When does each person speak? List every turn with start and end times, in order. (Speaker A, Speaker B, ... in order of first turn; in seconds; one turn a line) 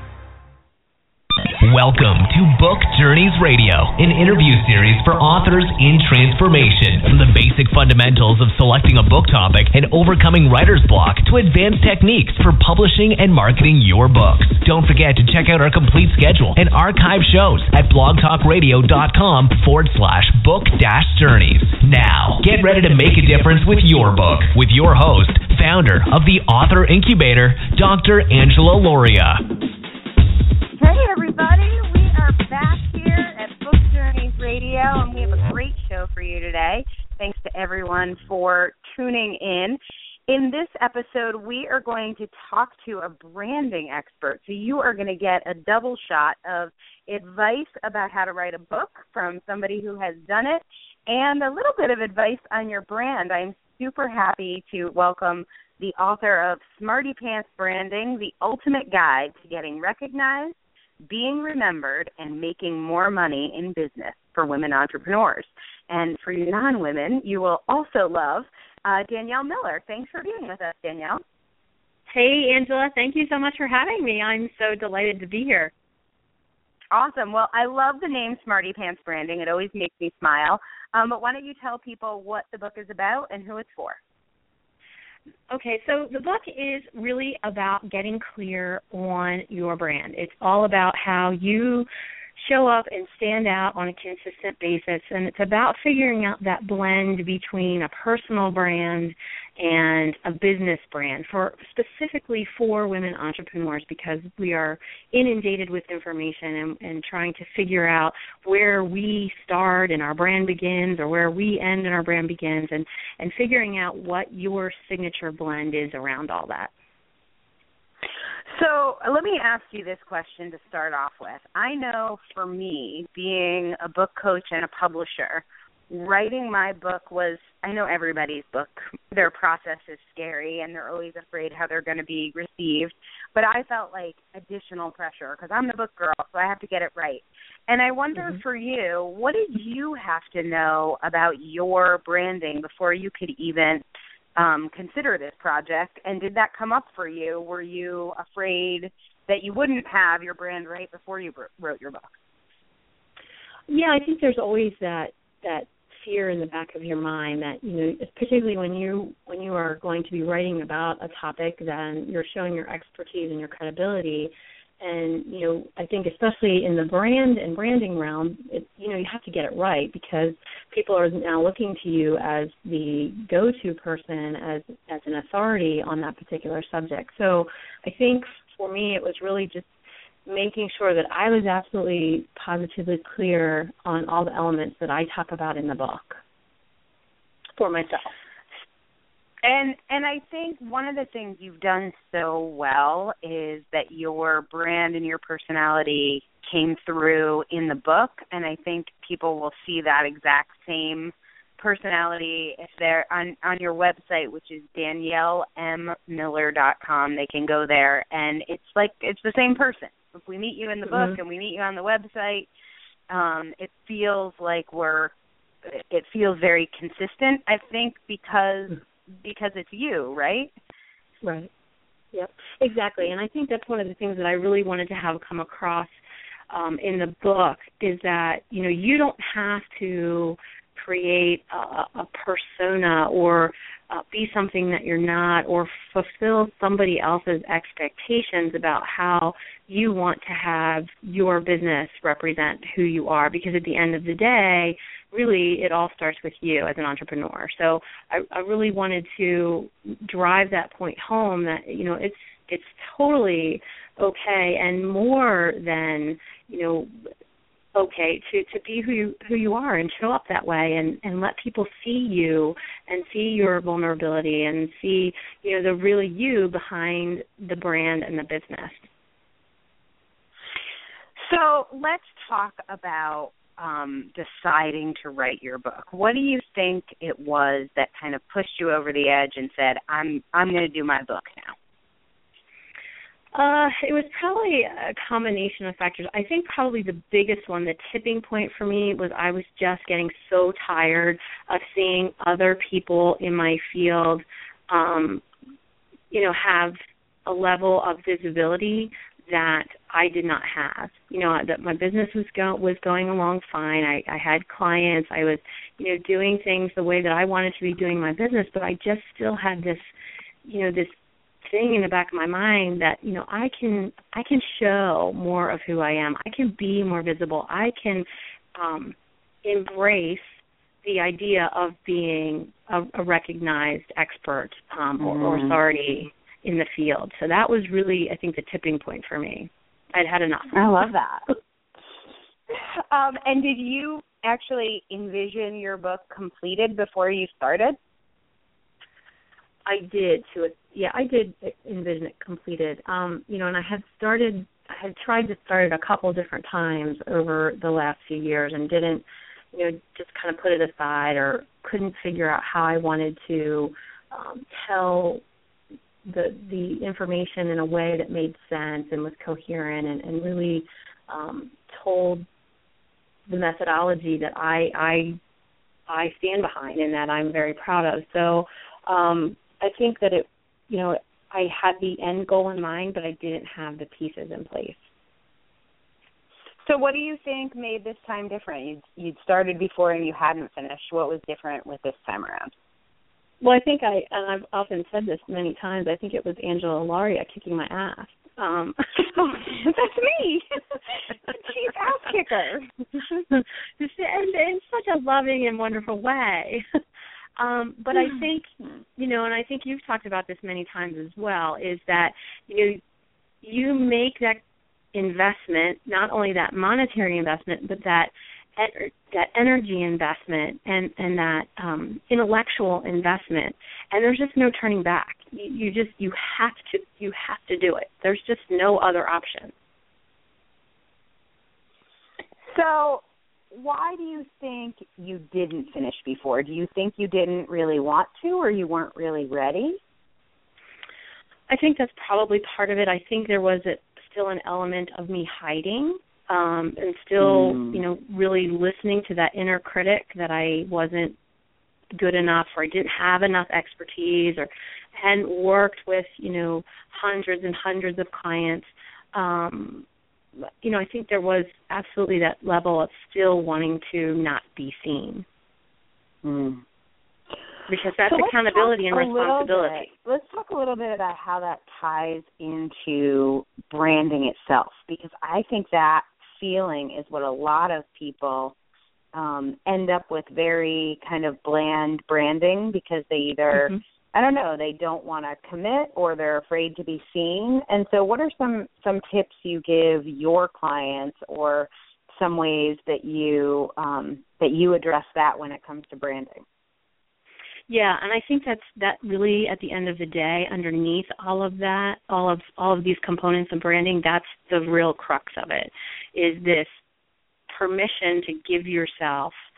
Speaker A: 1.6-29.4
Speaker B: 30.8-71.2
Speaker C: 72.1-75.7
Speaker B: 76.9-84.0
Speaker C: 85.5-116.7
Speaker B: 118.5-152.2
Speaker C: 153.7-179.7
Speaker C: 180.2-186.2
Speaker C: 187.6-188.1
Speaker B: 189.4-212.5
Speaker B: 213.1-220.5
Speaker C: 221.2-221.5
Speaker C: 222.1-226.0
Speaker C: 226.5-256.9
Speaker C: 257.7-268.9
Speaker B: 271.2-281.5
Speaker C: 283.3-295.2
Speaker C: 296.1-309.9
Speaker C: 310.4-330.6
Speaker B: 325.0-325.6
Speaker B: 330.5-331.2
Speaker B: 332.5-337.8
Speaker C: 339.6-355.2
Speaker C: 356.0-362.2
Speaker C: 363.3-365.2
Speaker C: 365.9-374.8
Speaker B: 376.6-382.5
Speaker C: 383.4-389.0
Speaker B: 389.0-393.0
Speaker C: 393.3-396.6
Speaker C: 397.4-402.8
Speaker C: 403.4-404.4
Speaker C: 404.9-419.5
Speaker B: 422.4-429.8
Speaker C: 431.5-441.2
Speaker B: 437.2-437.8
Speaker C: 441.9-449.9
Speaker C: 450.6-455.2
Speaker B: 456.2-456.6
Speaker C: 457.7-459.9
Speaker B: 458.1-468.6
Speaker B: 469.1-486.4
Speaker C: 487.7-496.8
Speaker C: 497.5-499.4